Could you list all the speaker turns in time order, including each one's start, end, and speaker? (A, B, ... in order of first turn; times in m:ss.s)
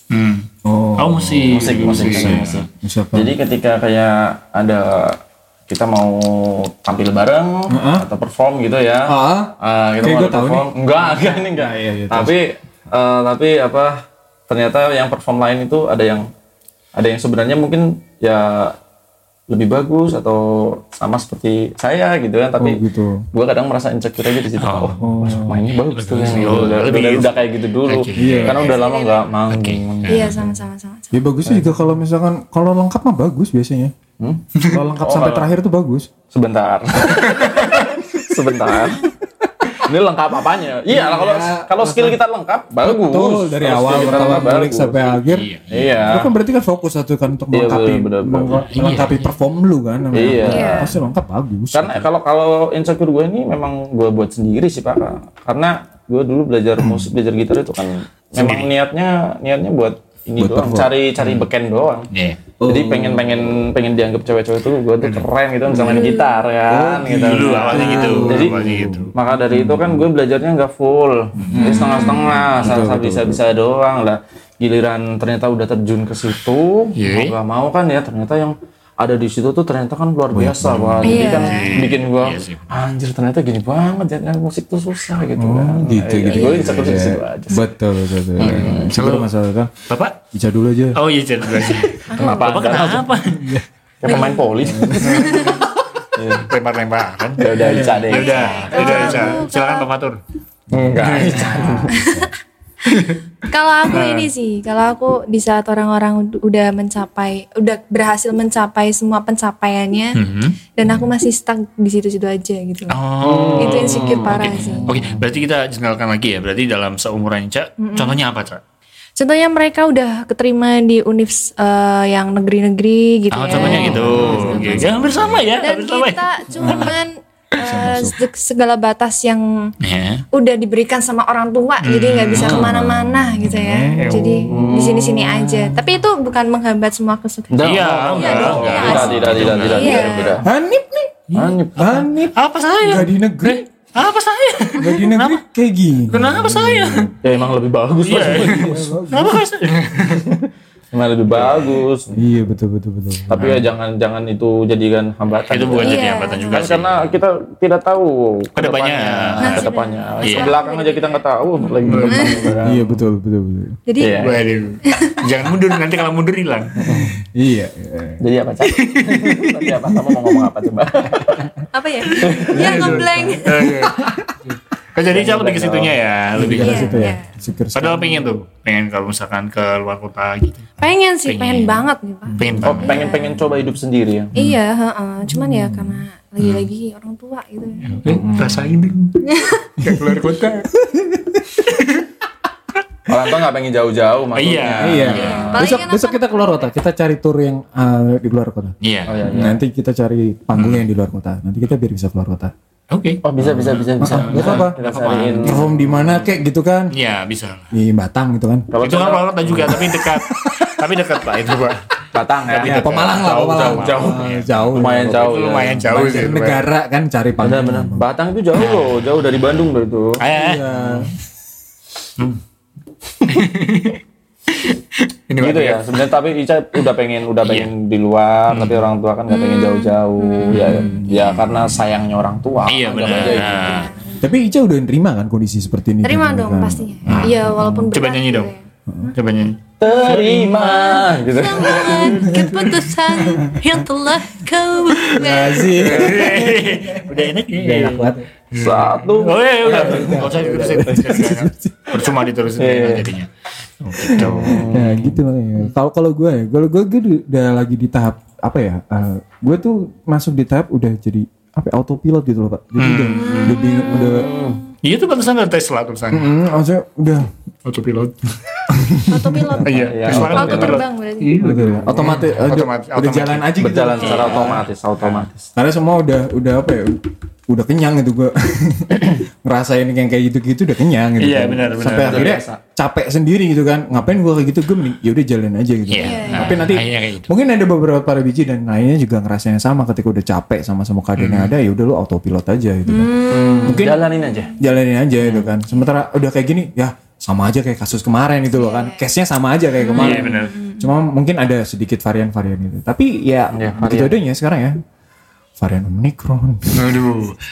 0:00.1-0:02.6 A
0:00.6-0:03.3 B
0:01.5-0:16.3 C
0:07.7-0:08.1 B
0:09.1-0:12.4 B
0:17.0-0:18.8 C
0:19.5-0:22.8 C
0:22.6-0:23.3 B
0:23.3-0:30.4 C
0:24.6-0:25.0 A
0:25.0-0:25.6 B
0:25.7-0:28.8 A
0:26.2-0:26.7 B
0:28.2-0:28.7 B
0:28.6-0:29.3 D
0:29.5-0:30.5 A
0:30.1-0:31.3 D
0:31.1-0:33.9 B
0:31.5-0:31.8 C
0:34.2-0:35.5 C
0:34.6-0:34.8 A
0:34.7-0:36.1 B
0:36.3-0:39.1 C
0:37.3-0:37.9 A
0:39.7-0:46.3 C
0:40.9-0:42.2 B
0:42.8-0:45.5 B
0:45.3-0:46.3 A
0:46.1-0:52.1 B
0:47.5-0:48.7 C
0:48.7-0:49.4 A
0:50.1-0:50.9 C
0:50.4-0:50.9 D
0:51.7-1:02.1 C
0:56.8-0:57.1 B
0:58.4-0:58.7 A
1:00.4-1:00.9 B
1:02.1-1:02.4 A
1:02.6-1:03.5 B
1:02.7-1:27.7 C
1:05.0-1:05.3 A
1:05.7-1:06.1 B
1:05.7-1:06.4 D
1:06.7-1:10.1 B
1:07.1-1:09.1 A
1:11.4-1:12.9 A
1:11.5-1:12.0 B
1:11.6-1:12.3 D
1:12.6-1:13.4 B
1:17.0-1:17.4 A
1:20.3-1:21.3 B
1:20.9-1:22.8 A
1:21.0-1:21.8 D
1:25.4-1:29.7 B
1:26.3-1:26.9 D
1:28.4-1:28.9 C
1:28.4-1:29.3 A
1:29.9-1:30.2 A
1:30.3-1:31.0 B
1:31.0-1:33.4 A
1:31.5-1:31.9 B
1:32.1-1:32.4 D
1:32.1-1:33.1 C
1:33.3-1:33.6 B
1:34.0-1:35.6 C
1:34.0-1:35.6 D
1:34.6-1:35.7 B
1:36.2-1:36.5 C
1:36.5-1:40.2 A
1:37.4-1:39.4 C
1:37.5-1:38.1 B
1:38.1-1:39.9 D
1:40.7-1:42.0 C
1:41.0-1:42.0 A
1:41.4-1:42.3 B
1:41.9-1:42.3 D
1:42.9-1:43.2 A
1:43.5-1:50.2 D
1:43.9-1:44.3 A
1:50.2-1:50.6 A
1:50.8-1:53.0 D
1:52.9-1:58.6 A
1:53.2-1:55.2 C
1:53.6-1:54.9 D
1:57.8-1:58.2 D
1:59.2-2:04.8 D
2:03.3-2:07.0 A
2:03.5-2:04.8 C
2:03.7-2:05.4 B
2:05.6-2:09.5 D
2:06.5-2:07.0 B
2:07.6-2:08.2 B
2:09.8-2:10.2 A
2:10.3-2:20.3 D
2:11.8-2:12.7 A
2:12.3-2:12.7 C
2:12.7-2:14.7 B
2:13.9-2:14.5 A
2:14.5-2:15.8 C
2:17.5-2:20.5 C
2:17.6-2:20.4 A
2:19.1-2:19.5 B
2:20.4-2:21.2 B
2:21.3-2:21.6 A
2:21.4-2:22.0 C
2:21.8-2:23.6 B
2:22.3-2:25.4 A
2:24.8-2:27.2 B
2:26.1-2:27.1 A
2:27.2-2:29.0 C
2:28.0-2:30.3 A
2:28.5-2:29.4 B
2:30.1-2:32.2 C
2:31.3-2:31.8 A
2:32.1-2:33.6 B
2:33.3-2:43.0 C
2:33.3-2:33.7 A
2:35.5-2:37.2 A
2:35.8-2:36.7 D
2:38.6-2:39.7 A
2:39.4-2:41.2 D
2:40.2-2:40.6 A
2:41.8-2:42.6 A
2:42.0-2:42.3 D
2:42.6-2:43.8 B
2:43.9-2:44.2 D
2:44.0-2:44.4 C
2:44.2-2:46.8 A
2:44.8-2:45.2 D
2:46.8-2:47.2 C
2:46.9-2:48.2 B
2:48.2-2:51.5 C
2:48.8-2:49.3 A
2:49.6-2:50.5 B
2:51.2-2:51.5 B
2:51.7-2:53.8 D
2:52.1-2:52.7 C
2:52.3-2:57.1 A
2:52.6-2:54.3 B
2:55.1-2:55.9 C
2:56.4-2:58.3 B
2:56.5-2:57.3 D
2:57.8-3:01.8 A
3:00.8-3:03.3 D
3:02.3-3:02.8 B
3:02.4-3:03.1 A
3:02.6-3:04.3 C
3:04.4-3:08.0 D
3:05.3-3:06.0 B
3:06.4-3:06.7 A
3:07.8-3:09.2 A
3:08.0-3:08.7 B
3:09.2-3:09.7 D
3:09.8-3:10.2 B
3:09.8-3:10.7 A
3:10.7-3:11.7 B
3:11.7-3:12.1 A
3:13.1-3:15.4 C
3:14.4-3:15.8 A
3:14.8-3:22.5 B
3:15.1-3:16.7 D
3:18.8-3:19.2 A
3:19.1-3:19.6 C
3:20.6-3:20.8 A
3:22.9-3:25.7 A
3:23.2-3:25.6 C
3:23.4-3:24.8 B
3:25.4-3:26.9 B
3:26.9-3:27.7 A
3:27.7-3:28.7 B
3:28.7-3:29.8 C
3:28.8-3:31.8 A
3:29.5-3:30.8 B
3:32.1-3:34.2 C
3:32.5-3:36.7 A
3:32.5-3:38.1 B
3:34.7-3:35.9 C
3:37.4-3:40.2 C
3:38.5-3:39.2 A
3:40.2-3:41.1 A
3:40.4-3:41.2 B
3:43.3-3:46.1 A
3:45.4-3:53.9 C
3:47.4-3:47.7 A
3:48.5-3:48.9 A
3:49.3-3:51.0 D
3:50.8-3:51.8 A
3:52.6-3:53.9 A
3:53.0-3:54.2 D
3:54.2-3:57.7 B
3:56.0-3:58.6 D
3:57.1-3:58.5 A
3:59.1-4:01.3 A
3:59.8-4:02.4 C
4:01.3-4:06.0 D
4:02.0-4:03.9 B
4:05.0-4:13.3 A
4:05.1-4:08.3 B
4:08.6-4:11.3 C
4:09.7-4:12.1 B
4:12.6-4:13.1 C
4:13.8-4:14.8 A
4:14.0-4:24.3 B
4:14.1-4:15.2 C
4:22.8-4:23.6 A
4:23.3-4:23.7 D
4:23.9-4:24.6 C
4:24.8-4:26.3 A
4:26.1-4:27.3 B
4:27.6-4:28.3 A
4:28.7-4:29.6 B
4:29.1-4:31.5 D
4:29.6-4:35.3 A
4:29.7-4:30.8 C
4:31.4-4:34.6 B
4:31.8-4:32.2 C
4:33.6-4:35.5 C
4:35.6-4:54.0 B
4:41.2-4:42.4 A
4:41.9-4:42.6 C
4:45.9-4:47.3 A
4:46.0-4:46.7 D
4:51.2-4:51.5 A
4:52.9-4:53.9 D
4:53.3-4:54.5 C
4:54.6-5:04.8 B
4:55.2-4:55.5 C
4:58.5-4:59.0 D
4:59.8-5:00.9 D
5:00.0-5:00.6 A
5:03.5-5:04.2 C
5:05.6-5:07.0 B
5:06.7-5:07.4 A